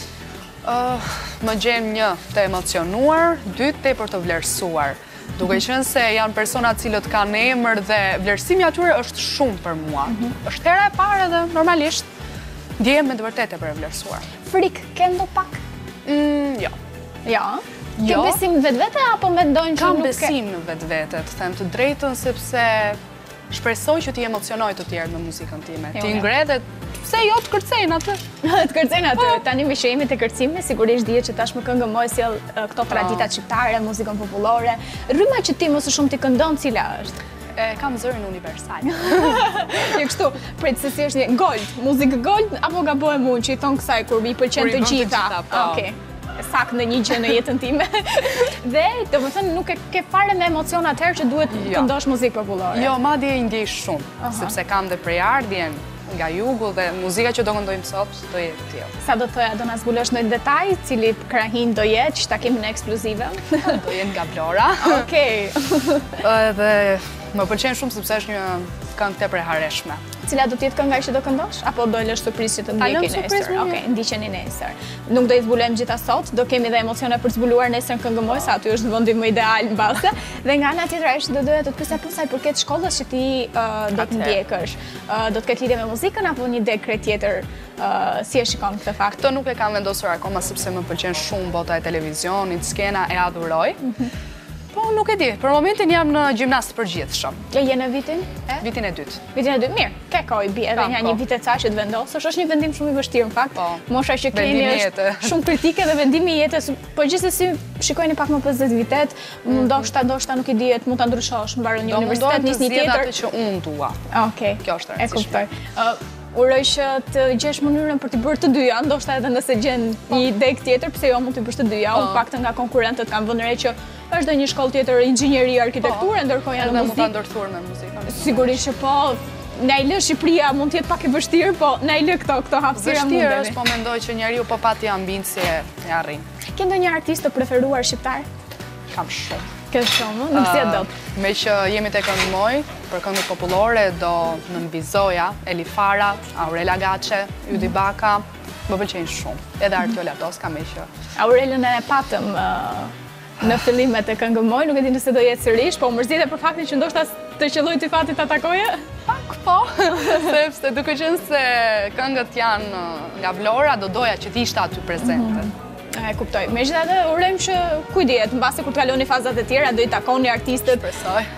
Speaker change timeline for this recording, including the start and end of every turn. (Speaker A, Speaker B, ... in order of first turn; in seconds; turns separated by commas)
Speaker A: 0.6-12.1, Speaker A: 12.8-14.3, Speaker B: 14.5-15.6, Speaker A: 16.1-16.8, Speaker B: 17.3-20.3, Speaker A: 18.0-18.4, Speaker A: 19.8-23.0, Speaker A: 23.5-28.2, Speaker B: 25.9-26.3, Speaker B: 28.4-37.2, Speaker A: 32.9-33.3, Speaker A: 37.6-39.8, Speaker B: 38.9-52.9, Speaker A: 44.6-45.9, Speaker A: 51.5-51.9, Speaker A: 52.7-58.9, Speaker B: 54.2-54.5, Speaker B: 59.0-63.8, Speaker A: 63.6-65.1, Speaker B: 64.8-66.2, Speaker A: 66.2-70.0, Speaker B: 70.3-89.2, Speaker A: 72.8-73.8, Speaker A: 84.0-84.4, Speaker A: 89.2-93.8, Speaker A: 94.7-97.4, Speaker B: 97.5-98.6, Speaker A: 98.6-99.2, Speaker B: 99.3-113.1, Speaker A: 100.8-101.2, Speaker A: 103.6-105.5, Speaker A: 109.5-109.9, Speaker A: 111.8-114.0, Speaker B: 114.1-127.1, Speaker A: 114.6-115.4, Speaker A: 121.9-122.2, Speaker A: 125.8-128.6, Speaker B: 128.1-133.6, Speaker A: 132.8-136.2, Speaker B: 136.5-138.3, Speaker A: 138.9-139.5, Speaker B: 139.7-140.9, Speaker A: 140.3-150.9, Speaker B: 151.2-158.9, Speaker A: 159.1-165.5, Speaker B: 159.9-160.2, Speaker B: 165.0-170.8, Speaker A: 170.7-171.3